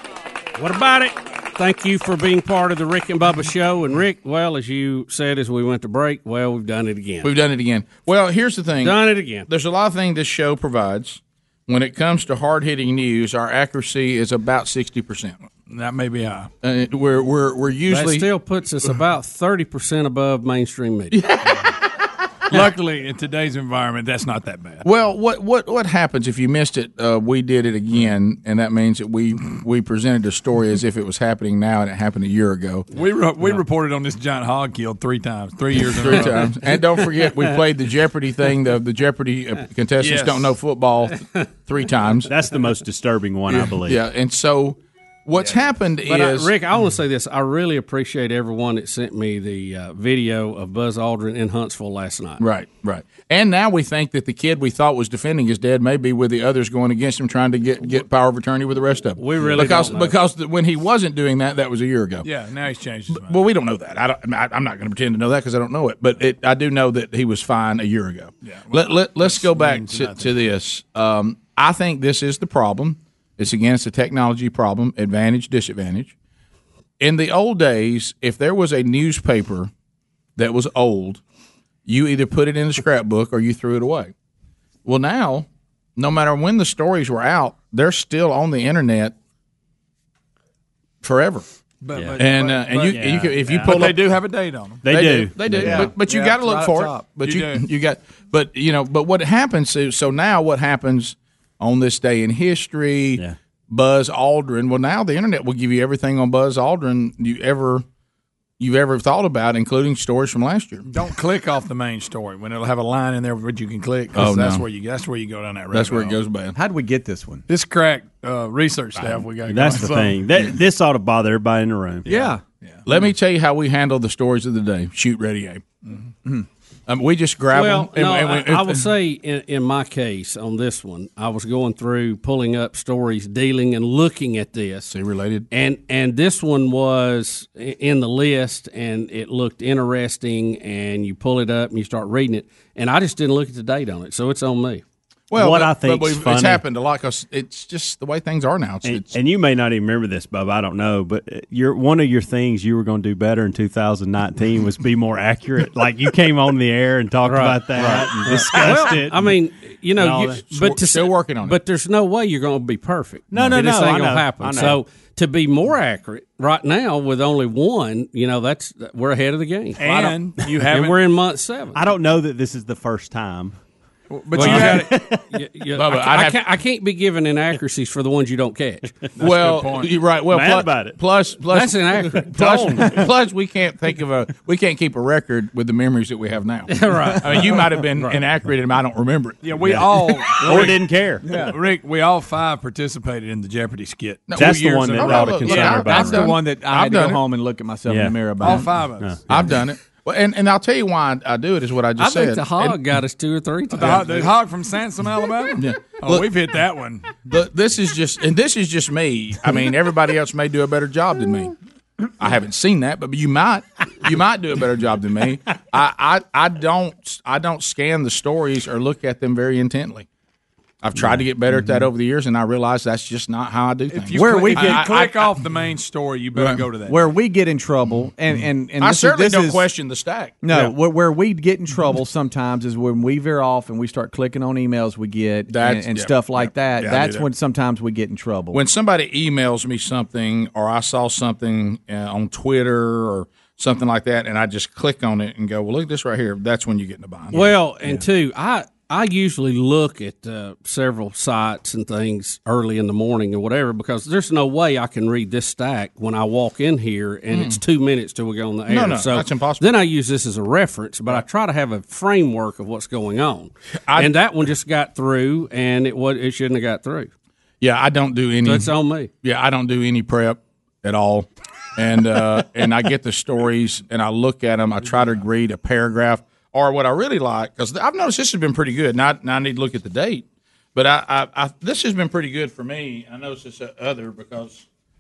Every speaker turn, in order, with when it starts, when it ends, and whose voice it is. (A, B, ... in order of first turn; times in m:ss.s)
0:00.6-0:07.3 A
0:07.2-0:15.4 B
0:08.8-0:09.5 A
0:15.7-0:16.5 C
0:16.6-0:18.3 B
0:17.9-0:21.2 A
0:21.1-0:21.6 B
0:22.5-0:24.8 C
0:24.8-0:32.9 B
0:32.9-0:36.6 C
0:36.0-0:42.3 B
0:40.0-0:40.5 C
0:42.3-0:44.0 D
0:43.5-0:46.5 B
0:46.0-0:52.4 A
0:52.4-1:02.3 B
0:59.2-1:00.2 A
1:02.2-1:03.4 C
1:03.1-1:16.1 B
1:08.4-1:10.3 C
1:17.0-1:19.7 B
1:20.4-1:21.2 B
1:21.9-1:24.1 B
1:24.8-1:25.5 B
1:26.0-1:29.1 B
1:31.0-1:31.4 B
1:31.8-1:33.0 C
1:31.9-1:32.2 D
1:32.2-1:34.0 B
1:32.9-1:34.0 D
1:33.6-1:34.9 C
1:34.8-1:35.9 D
1:34.9-1:47.8 B
1:35.6-1:37.0 E
1:37.2-1:37.6 C
1:48.6-1:50.9 B
1:50.9-1:56.2 C
1:54.2-1:54.6 B
1:55.7-1:56.6 B
1:56.5-1:57.4 E
1:57.5-2:00.4 C
1:59.5-2:02.3 D
2:02.1-2:02.4 E
2:02.6-2:02.9 C
2:02.9-2:05.6 B
2:06.9-2:08.9 B
2:07.5-2:14.9 A
2:14.9-2:15.5 B
2:15.5-2:24.8 A
2:25.3-2:29.2 B
2:25.3-2:26.6 D
2:28.8-2:39.4 D
2:37.2-2:50.2 A
2:40.0-2:40.4 D
2:40.5-2:41.6 B
2:43.3-2:44.8 D
2:49.8-2:51.0 C
2:50.7-2:51.8 A
2:51.7-2:53.6 D
2:54.1-2:54.9 C
2:54.4-2:58.9 A
2:54.4-2:55.2 D
2:55.8-2:56.4 B
2:59.2-2:59.9 C
2:59.2-3:09.8 B
3:00.3-3:01.0 D
3:01.5-3:02.9 A
3:02.4-3:02.9 D
3:06.7-3:08.2 A
3:09.4-3:16.0 C
3:09.6-3:11.3 D
3:11.2-3:11.6 E
3:14.3-3:17.2 B
3:14.4-3:16.3 D
3:15.9-3:18.7 E
3:17.9-3:19.2 D
3:18.4-3:19.2 C
3:19.3-3:22.8 B
3:22.0-3:24.3 A
3:23.7-3:27.2 C
3:25.6-3:26.3 B
3:27.3-3:31.6 B
3:32.2-3:40.1 B
3:40.8-3:45.1 B
3:41.5-3:41.9 E
3:43.9-3:47.0 C
3:44.1-3:45.1 E
3:46.3-3:46.6 B
3:46.9-3:49.6 E
3:48.8-3:50.5 B
3:50.4-3:58.6 E
3:55.5-3:56.2 B
3:56.8-3:57.2 C
3:58.5-4:07.5 B
4:07.3-4:27.1 A
4:17.3-4:17.6 B
4:18.7-4:19.7 B
4:23.9-4:24.1 B
4:27.6-4:28.7 B
4:28.4-4:29.1 A
4:29.2-4:44.6 B